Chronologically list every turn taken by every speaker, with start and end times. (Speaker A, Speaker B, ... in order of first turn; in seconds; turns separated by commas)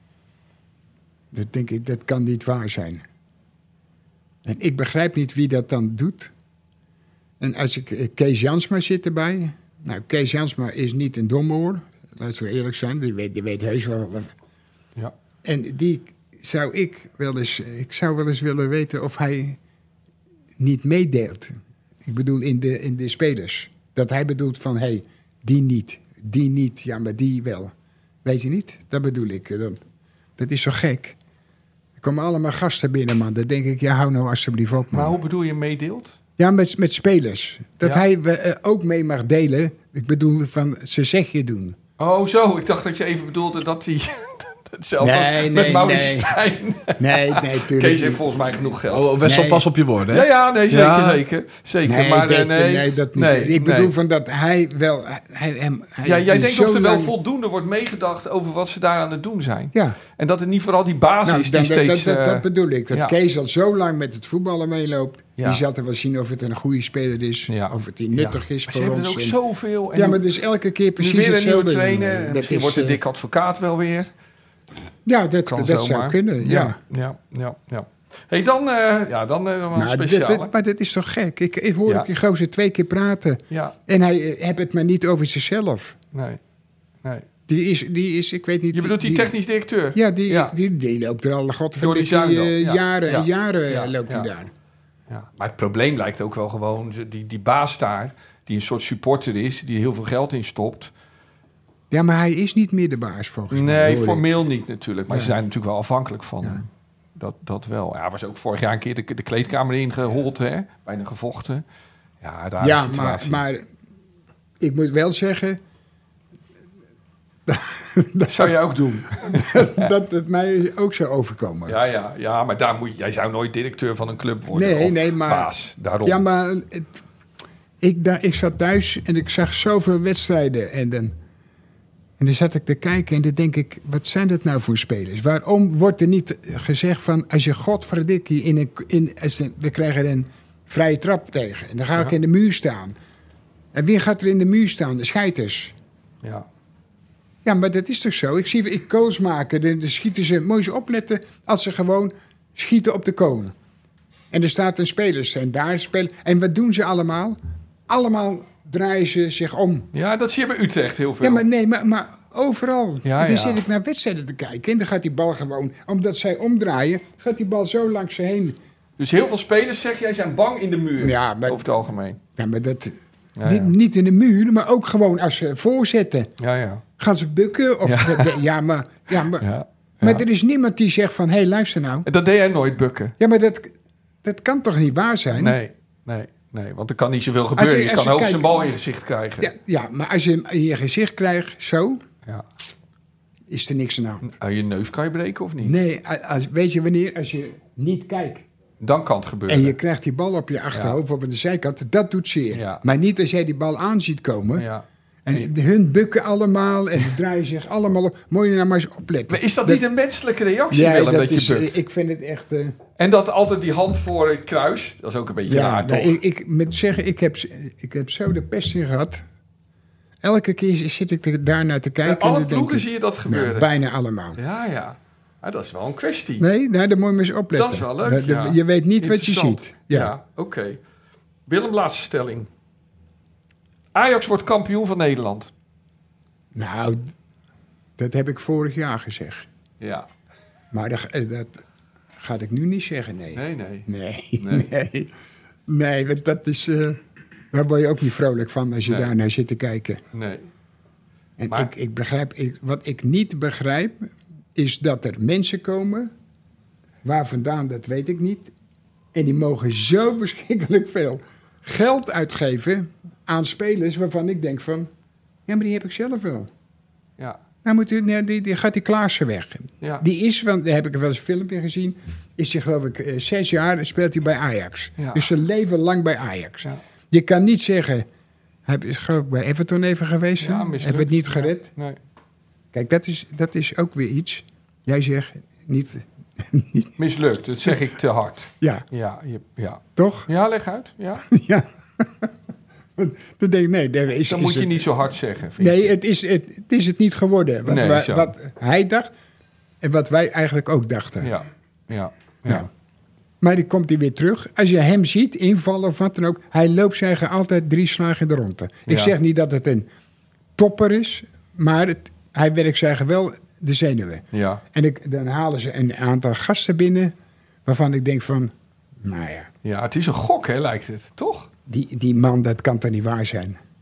Speaker A: 1.3-3.0, Speaker A: 4.5-6.3, Speaker A: 7.4-14.3, Speaker A: 15.4-19.6, Speaker A: 20.6-27.7, Speaker A: 28.2-29.8, Speaker A: 30.4-31.2, Speaker A: 32.0-35.2, Speaker B: 34.9-36.2, Speaker A: 36.4-41.8, Speaker B: 42.0-49.1, Speaker A: 45.0-46.3, Speaker A: 47.0-48.6, Speaker C: 48.9-51.2, Speaker A: 49.2-49.7, Speaker B: 50.1-53.9, Speaker A: 51.9-57.1, Speaker B: 56.0-63.2, Speaker A: 59.7-60.0, Speaker A: 61.2-69.4, Speaker B: 65.4-65.6, Speaker B: 67.5-70.2, Speaker A: 70.0-73.0, Speaker B: 71.0-74.1, Speaker A: 75.0-76.8, Speaker B: 75.5-80.5, Speaker A: 79.7-86.0, Speaker B: 83.5-83.8, Speaker B: 86.1-86.4, Speaker A: 87.5-89.3, Speaker B: 88.7-90.5, Speaker A: 89.9-94.5, Speaker B: 91.8-94.3, Speaker B: 95.1-100.9, Speaker A: 101.9-104.3, Speaker B: 103.5-111.6, Speaker A: 105.1-105.4, Speaker B: 112.2-113.4, Speaker A: 112.6-113.7, Speaker A: 114.6-115.6, Speaker A: 117.5-118.6, Speaker B: 118.3-119.9, Speaker A: 119.1-121.8, Speaker B: 121.7-126.2, Speaker A: 124.5-127.0, Speaker A: 127.8-131.2, Speaker A: 132.2-143.0, Speaker A: 143.7-145.8, Speaker A: 147.4-153.5, Speaker A: 154.3-159.9, Speaker B: 159.9-161.4, Speaker A: 161.2-168.6, Speaker B: 163.1-163.6, Speaker B: 169.0-172.2, Speaker A: 171.0-171.7, Speaker A: 172.3-176.3, Speaker B: 173.4-173.7, Speaker B: 176.4-176.8, Speaker A: 177.0-179.5, Speaker B: 177.8-178.4, Speaker B: 179.4-180.2, Speaker A: 180.0-182.1, Speaker B: 182.1-183.2, Speaker A: 183.2-185.6, Speaker B: 185.3-189.5, Speaker A: 187.6-188.7, Speaker A: 189.4-192.0, Speaker A: 193.5-194.3, Speaker B: 194.2-195.8, Speaker A: 195.6-198.5, Speaker B: 198.8-199.8, Speaker A: 199.5-204.7, Speaker B: 202.5-202.8, Speaker B: 204.6-205.5, Speaker A: 205.2-209.8, Speaker B: 209.3-211.8, Speaker A: 210.7-212.8, Speaker B: 213.0-216.2, Speaker A: 215.5-219.2, Speaker A: 220.2-224.4, Speaker B: 222.0-223.7, Speaker B: 224.4-226.4, Speaker A: 226.4-230.1, Speaker B: 227.5-230.8, Speaker B: 231.5-232.5, Speaker B: 233.9-235.5, Speaker A: 236.5-237.1, Speaker A: 238.0-239.5, Speaker B: 239.8-240.1, Speaker A: 240.7-241.6, Speaker A: 242.2-245.1, Speaker B: 243.3-243.9, Speaker B: 244.4-244.7, Speaker A: 245.7-247.0, Speaker A: 247.5-250.0, Speaker B: 248.8-249.1, Speaker B: 250.1-250.5, Speaker A: 251.4-256.1, Speaker A: 257.0-258.5, Speaker A: 259.1-264.9, Speaker A: 265.5-266.5, Speaker A: 267.6-278.1, Speaker B: 275.0-275.3, Speaker A: 278.7-281.7, Speaker B: 280.4-282.0, Speaker A: 282.7-287.0, Speaker B: 287.0-291.3, Speaker A: 288.6-288.9, Speaker A: 290.0-290.3, Speaker A: 291.3-292.3, Speaker A: 293.0-299.1, Speaker B: 294.3-295.9, Speaker B: 297.7-298.3, Speaker A: 299.8-301.3, Speaker B: 301.2-302.7, Speaker A: 303.4-309.9, Speaker B: 308.9-309.1, Speaker A: 310.6-317.1, Speaker B: 314.3-314.6, Speaker A: 317.6-319.5, Speaker B: 319.6-321.5, Speaker A: 321.7-323.6